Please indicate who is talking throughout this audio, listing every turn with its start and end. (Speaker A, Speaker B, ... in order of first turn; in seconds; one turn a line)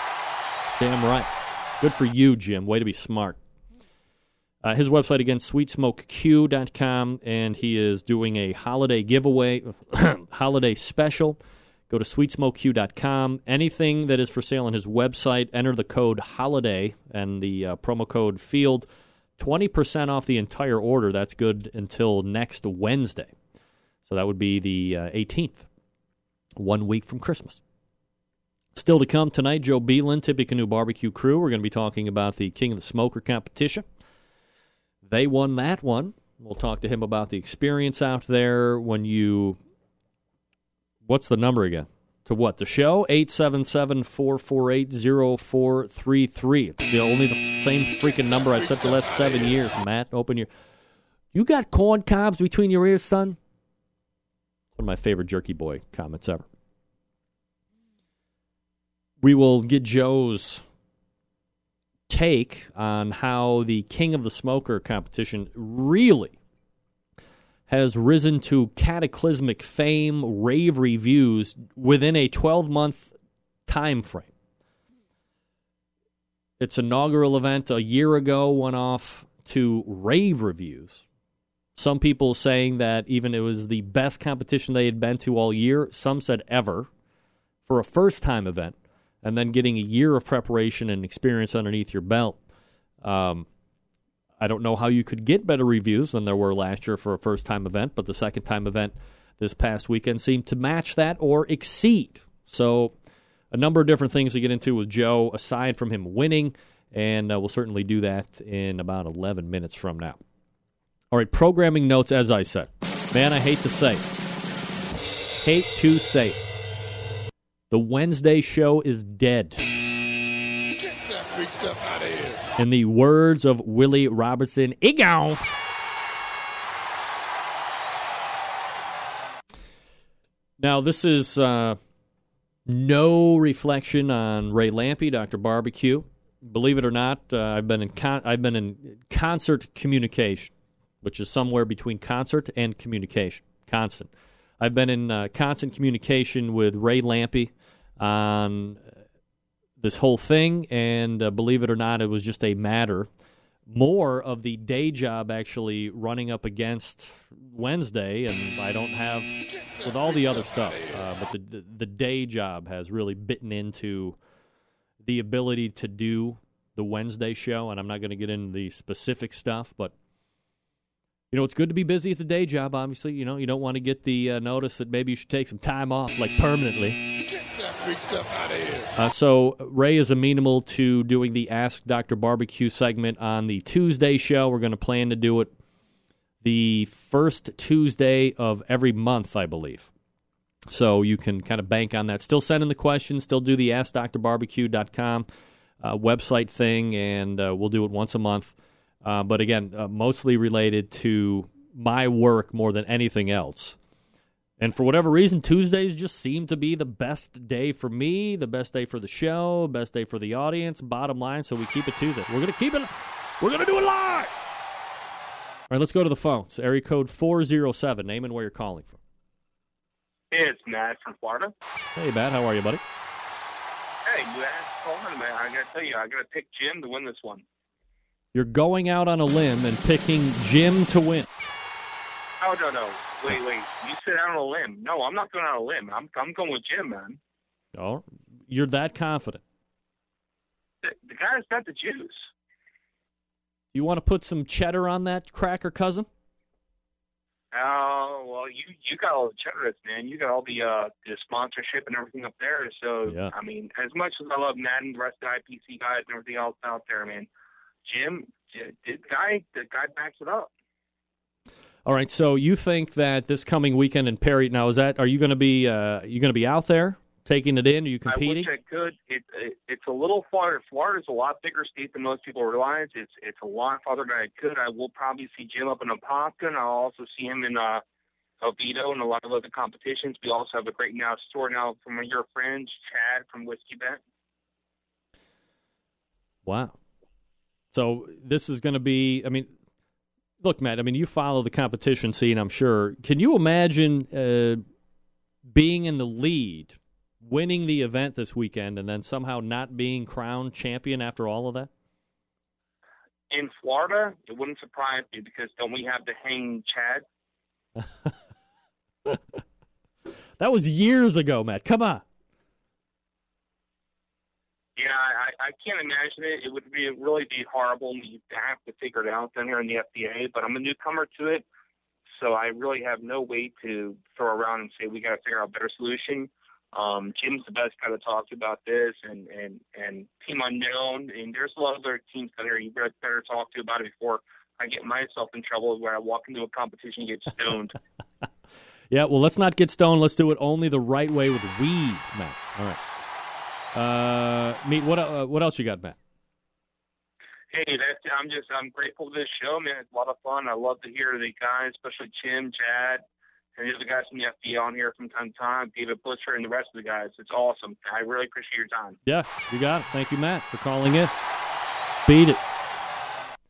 Speaker A: 0.8-3.4
Speaker A: 4.6-18.9
Speaker A: 19.4-23.3
Speaker A: 24.1-25.6
Speaker A: 26.6-27.6
Speaker A: 28.7-33.8
Speaker A: 35.0-39.6
Speaker A: 41.1-50.5
Speaker B: 48.3-49.5
Speaker A: 51.3-53.4
Speaker A: 54.8-56.5
Speaker A: 59.2-60.6
Speaker A: 62.1-66.4
Speaker A: 67.7-73.1
Speaker A: 73.7-74.3
Speaker A: 76.6-81.0
Speaker A: 81.8-86.9
Speaker A: 87.7-92.4
Speaker A: 93.0-93.5
Speaker A: 94.4-102.9
Speaker A: 103.5-110.2
Speaker A: 111.1-114.0
Speaker A: 115.4-116.4
Speaker A: 117.7-119.6
Speaker B: 120.7-122.5
Speaker A: 122.6-125.4
Speaker A: 130.6-131.8
Speaker A: 132.7-148.9
Speaker A: 149.8-153.1
Speaker A: 153.7-164.2
Speaker B: 159.6-161.1
Speaker A: 165.0-169.9
Speaker A: 171.3-177.0
Speaker B: 177.3-178.9
Speaker A: 179.0-185.5
Speaker A: 186.4-189.9
Speaker A: 190.7-195.3
Speaker A: 195.8-203.8
Speaker A: 204.6-214.3
Speaker A: 215.7-219.0
Speaker C: 220.3-221.5
Speaker A: 222.0-222.8
Speaker C: 224.1-227.4
Speaker A: 228.3-231.3
Speaker C: 232.4-237.2
Speaker A: 237.8-239.4
Speaker C: 240.8-242.2
Speaker A: 243.7-246.1
Speaker C: 247.5-257.3
Speaker A: 253.0-253.3
Speaker C: 257.8-260.5
Speaker A: 261.9-268.5
Speaker C: 268.1-277.8
Speaker C: 278.4-284.0
Speaker A: 286.5-286.8
Speaker A: 287.7-289.5
Speaker A: 290.4-294.6
Speaker A: 295.5-301.7
Speaker C: 303.3-307.0
Speaker A: 307.8-308.1
Speaker A: 309.1-309.4
Speaker A: 310.4-312.0
Speaker C: 314.8-321.4
Speaker C: 322.2-337.8
Speaker A: 338.9-342.8
Speaker A: 343.8-346.0
Speaker C: 347.5-353.0
Speaker C: 353.6-359.0
Speaker A: 359.0-361.1
Speaker A: 362.1-362.4